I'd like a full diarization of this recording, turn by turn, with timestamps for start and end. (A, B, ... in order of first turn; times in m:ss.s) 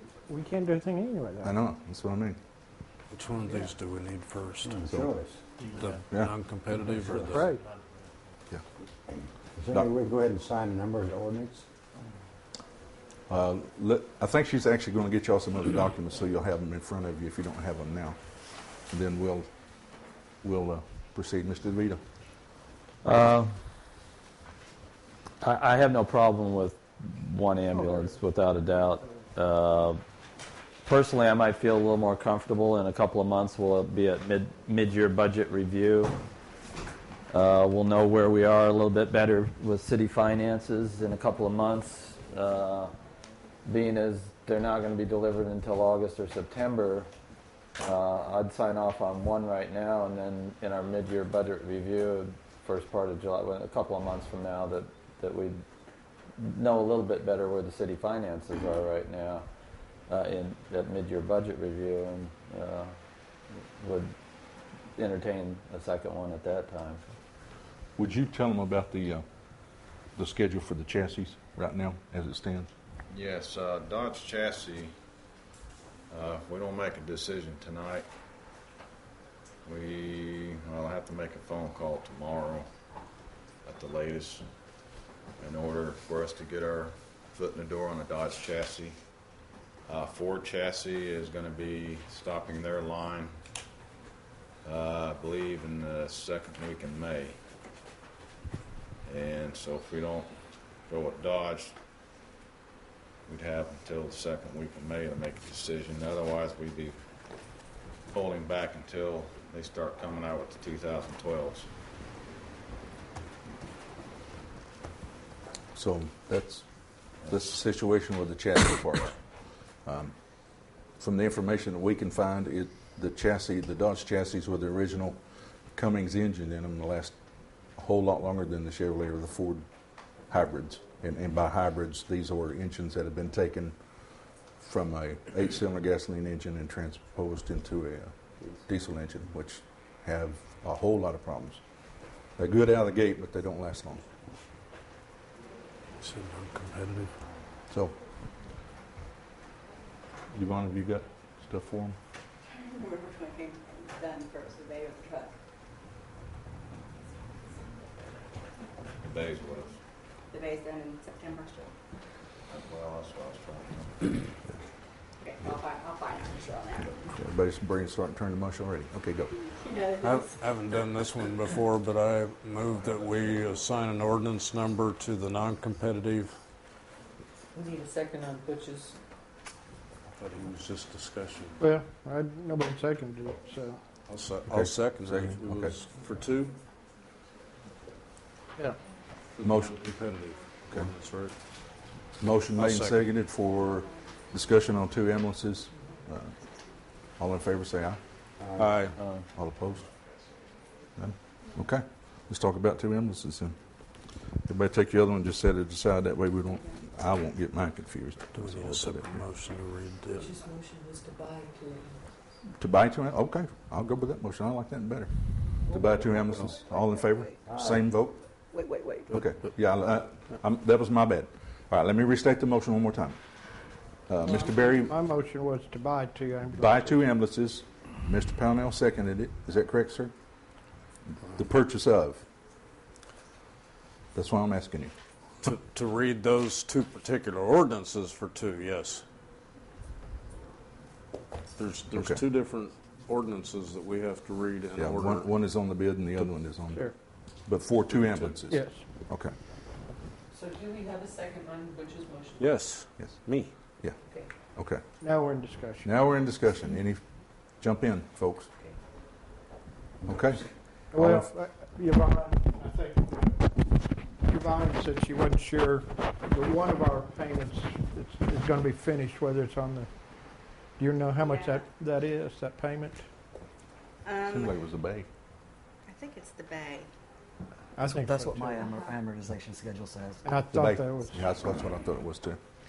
0:00.3-0:01.6 A
0:01.4-0:02.4 B
0:03.1-0:05.0 C
0:04.6-0:05.4 D
0:05.8-0:07.5 C
0:07.3-0:07.6 A
0:09.1-0:11.7 D
0:13.3-0:18.2 B
0:18.9-0:19.5 B
0:20.4-0:22.0 B
0:23.0-0:23.5 E
0:25.4-0:30.0 E
0:30.8-0:36.2 E
0:37.3-0:42.9 E
0:43.6-0:47.1 E
0:47.8-0:55.6 E
0:56.4-0:59.4 E
1:00.1-1:02.9 E
1:03.5-1:04.1 E
1:05.0-1:07.1 E
1:08.0-1:09.2 B
1:10.2-1:12.7 B
1:13.1-1:14.9 F
1:16.1-1:18.1 F
1:19.6-1:22.7 F
1:23.6-1:24.4 F
1:25.4-1:29.0 F
1:29.9-1:33.3 F
1:34.6-1:37.4 F
1:39.0-1:40.3 F
1:40.9-1:41.7 F
1:43.3-1:46.9 F
1:48.1-1:51.7 F
1:55.7-1:56.6 B
1:57.2-1:59.2 B
1:59.8-2:00.1 B
2:01.0-2:05.2 B
2:05.7-2:07.1 B
2:07.8-2:09.6 B
2:10.3-2:13.8 B
2:14.6-2:21.6 B
2:22.4-2:24.0 B
2:26.0-2:27.1 C
2:27.7-2:27.9 B
2:30.3-2:32.0 B
2:32.4-2:35.3 G
2:39.1-2:39.8 F
2:40.3-2:41.7 G
2:42.5-2:44.1 F
2:45.2-2:47.1 G
2:47.1-2:49.4 B
2:49.4-2:50.5 G
2:50.0-2:56.3 C
2:52.8-2:53.6 F
2:57.5-2:59.0 H
3:00.1-3:01.6 C
3:01.6-3:03.8 A
3:04.0-3:06.6 C
3:04.5-3:05.8 B
3:09.4-3:11.4 C
3:09.4-3:09.8 B
3:12.2-3:16.4 B
3:12.5-3:13.0 C
3:17.2-3:18.0 B
3:18.4-3:18.9 D
3:18.6-3:19.0 C
3:18.9-3:19.3 E
3:19.3-3:19.8 B
3:21.0-3:23.6 B
3:24.4-3:29.2 B
3:28.3-3:30.3 C
3:30.2-3:32.0 H
3:32.6-3:38.2 B
3:36.8-3:37.4 G
3:37.5-3:37.8 D
3:38.5-3:39.1 G
3:39.1-3:43.2 B
3:44.1-3:44.9 B
3:44.2-3:47.0 A
3:46.6-3:50.1 B
3:51.3-3:52.2 B
3:54.1-3:54.9 B
3:55.4-3:59.0 C
4:01.6-4:05.3 C
4:01.9-4:02.2 B
4:04.8-4:06.8 B
4:07.4-4:09.3 B
4:07.9-4:08.4 C
4:08.5-4:08.8 A
4:10.3-4:12.4 H
4:12.4-4:13.5 C
4:14.5-4:14.8 B
4:15.0-4:16.1 A
4:15.8-4:17.0 B
4:17.6-4:18.5 B
4:20.0-4:20.5 B
4:20.9-4:29.9 A
4:30.8-4:33.0 A
4:31.2-4:31.6 G
4:34.0-4:34.5 G
4:34.2-4:35.1 B
4:35.8-4:36.9 G
4:37.8-4:38.5 A
4:37.8-4:40.2 I
4:38.5-4:39.0 G
4:40.2-4:41.5 A
4:40.5-4:42.4 B